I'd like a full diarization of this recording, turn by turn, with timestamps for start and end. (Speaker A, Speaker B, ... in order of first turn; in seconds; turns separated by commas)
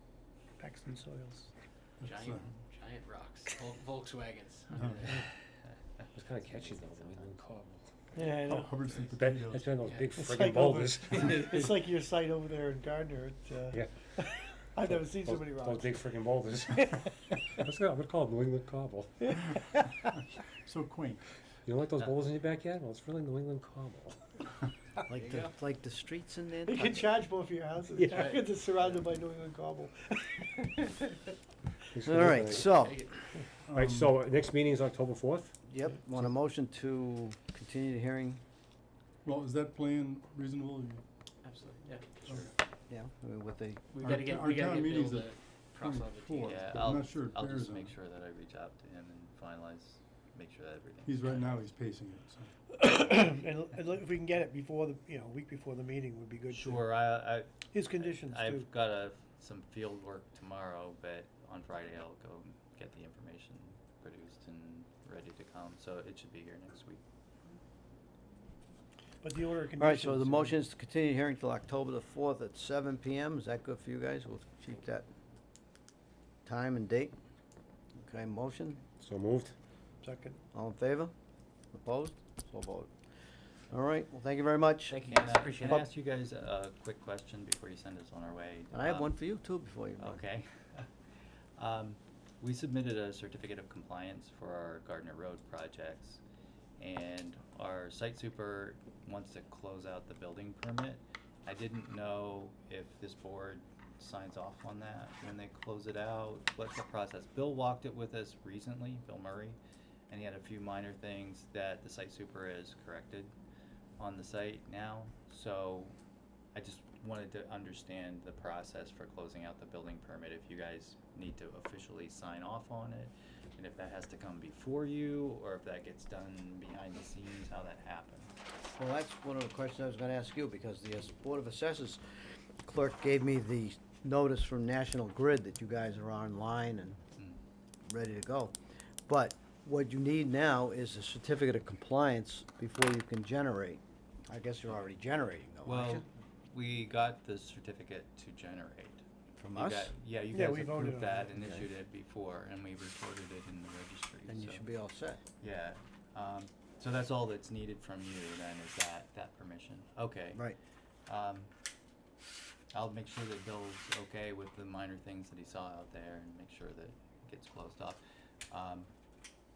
Speaker A: 0.6-1.5, Speaker B: 2.0-5.4, Speaker C: 2.0-2.5, Speaker C: 4.8-5.1, Speaker D: 6.1-8.2, Speaker B: 6.4-7.3, Speaker A: 8.2-8.8, Speaker C: 8.4-9.9, Speaker D: 9.1-11.8, Speaker B: 9.8-10.2, Speaker A: 10.2-16.0, Speaker D: 14.8-19.8, Speaker A: 19.2-19.5, Speaker C: 20.6-21.2, Speaker D: 21.7-24.3, Speaker E: 25.1-27.1, Speaker B: 25.2-25.5, Speaker A: 26.7-30.9, Speaker D: 28.0-28.3, Speaker B: 28.1-29.1, Speaker D: 31.9-32.8, Speaker E: 32.0-33.1, Speaker B: 32.4-33.2, Speaker C: 33.7-34.2, Speaker D: 33.7-35.5, Speaker E: 35.7-38.4, Speaker C: 39.2-41.0, Speaker B: 41.4-42.5, Speaker E: 42.9-43.8, Speaker B: 43.9-46.8, Speaker C: 44.0-47.9, Speaker F: 46.5-51.6, Speaker C: 51.0-52.5, Speaker A: 52.7-56.9, Speaker F: 56.5-67.0, Speaker A: 57.7-58.7, Speaker A: 69.2-70.6, Speaker E: 69.8-75.1, Speaker E: 76.5-77.2, Speaker E: 78.0-78.8, Speaker D: 79.0-79.5, Speaker A: 80.0-80.4, Speaker E: 80.5-81.1, Speaker E: 81.7-82.9, Speaker E: 83.7-85.0, Speaker B: 84.9-85.9, Speaker F: 85.0-89.2, Speaker E: 88.7-90.2, Speaker F: 90.0-90.9, Speaker F: 91.6-96.2, Speaker F: 96.8-109.6, Speaker F: 110.1-113.3, Speaker F: 114.0-116.0, Speaker F: 116.5-128.3, Speaker E: 128.7-137.0, Speaker F: 137.2-137.4, Speaker E: 137.8-138.6, Speaker E: 139.1-146.0, Speaker F: 145.7-154.6, Speaker E: 149.4-149.9, Speaker A: 150.3-151.3, Speaker E: 151.4-151.7, Speaker E: 154.3-155.2, Speaker F: 155.4-160.4, Speaker F: 161.1-161.5, Speaker F: 162.7-168.9